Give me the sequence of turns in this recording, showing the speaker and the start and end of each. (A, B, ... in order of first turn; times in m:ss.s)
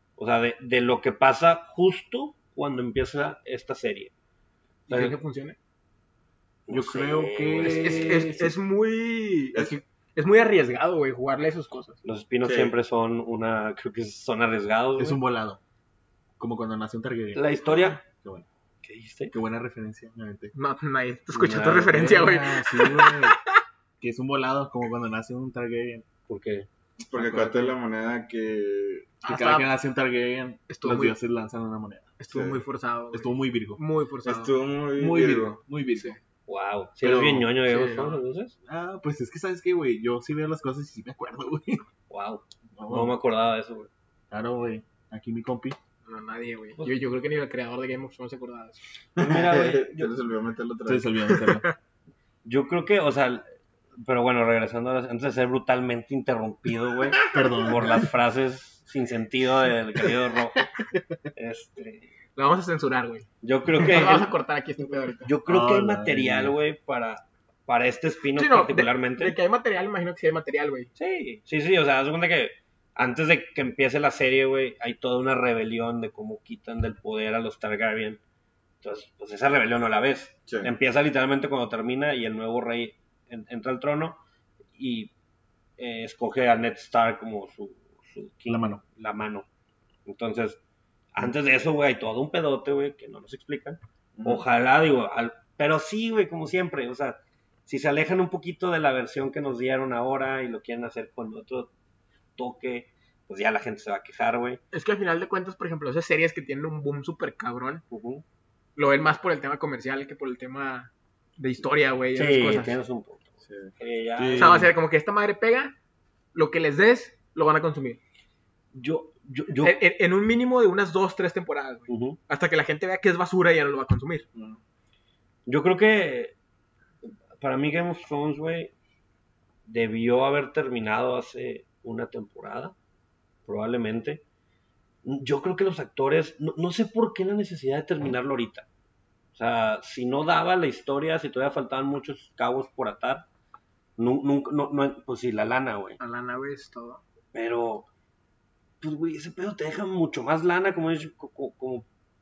0:00.2-0:04.1 A
0:04.9-0:05.6 B
0:04.9-0:05.1 A
0:06.7-0:08.2 A
0:06.7-0:08.5 C
0:07.6-0:12.0 B
0:09.5-0:09.8 D
0:12.0-0:15.2 A
0:12.4-0:12.7 D
0:15.0-0:15.6 C
0:16.4-0:17.5 C
0:17.3-0:18.0 A
0:18.0-0:18.4 C
0:18.8-0:19.3 A
0:19.3-0:20.5 C
0:20.5-0:23.6 B
0:21.3-0:22.1 A
0:21.9-0:23.4 C
0:24.0-0:26.0 C
0:26.3-0:26.7 A
0:27.0-0:29.1 D
0:27.1-0:27.7 C
0:29.2-0:29.7 B
0:29.2-0:32.2 C
0:30.7-0:31.2 B
0:32.2-0:34.5 B
0:32.3-0:32.6 D
0:33.1-0:33.8 C
0:34.2-0:35.6 D
0:35.0-0:36.2 C
0:36.5-0:38.5 A
0:37.0-0:37.5 C
0:37.7-0:38.2 B
0:38.6-0:41.8 C
0:42.1-0:43.9 A
0:42.8-0:43.2 C
0:44.3-0:45.8 C
0:46.1-0:48.8 B
0:49.2-0:50.1 A
0:49.2-0:51.4 D
0:50.8-0:51.7 C
0:52.4-0:53.4 A
0:54.0-1:00.7 A
0:57.3-0:58.1 C
1:01.3-1:02.1 A
1:02.4-1:05.3 B
1:03.4-1:04.3 A
1:05.2-1:09.4 A
1:05.4-1:06.5 C
1:08.4-1:10.9 B
1:11.0-1:18.2 A
1:18.8-1:24.2 A
1:20.5-1:20.7 D
1:24.8-1:25.1 A
1:25.8-1:29.4 A
1:28.5-1:28.8 C
1:30.0-1:30.6 A
1:31.1-1:41.7 A
1:34.2-1:34.4 D
1:42.4-1:44.6 A
1:44.7-1:47.8 B
1:47.9-1:48.2 A
1:48.8-1:52.8 B
1:52.1-1:54.7 A
1:53.4-1:54.5 D
1:54.3-1:55.7 B
1:56.3-1:58.0 B
1:58.7-1:59.8 A
1:59.6-2:04.2 B
2:01.9-2:02.2 A
2:04.3-2:04.6 D
2:05.5-2:06.3 A
2:07.0-2:08.7 A
2:09.7-2:12.7 A
2:13.4-2:14.2 A
2:15.0-2:18.6 A
2:19.3-2:23.2 A
2:24.0-2:26.0 A
2:26.0-2:27.0 B
2:27.3-2:27.9 A
2:28.8-2:31.8 A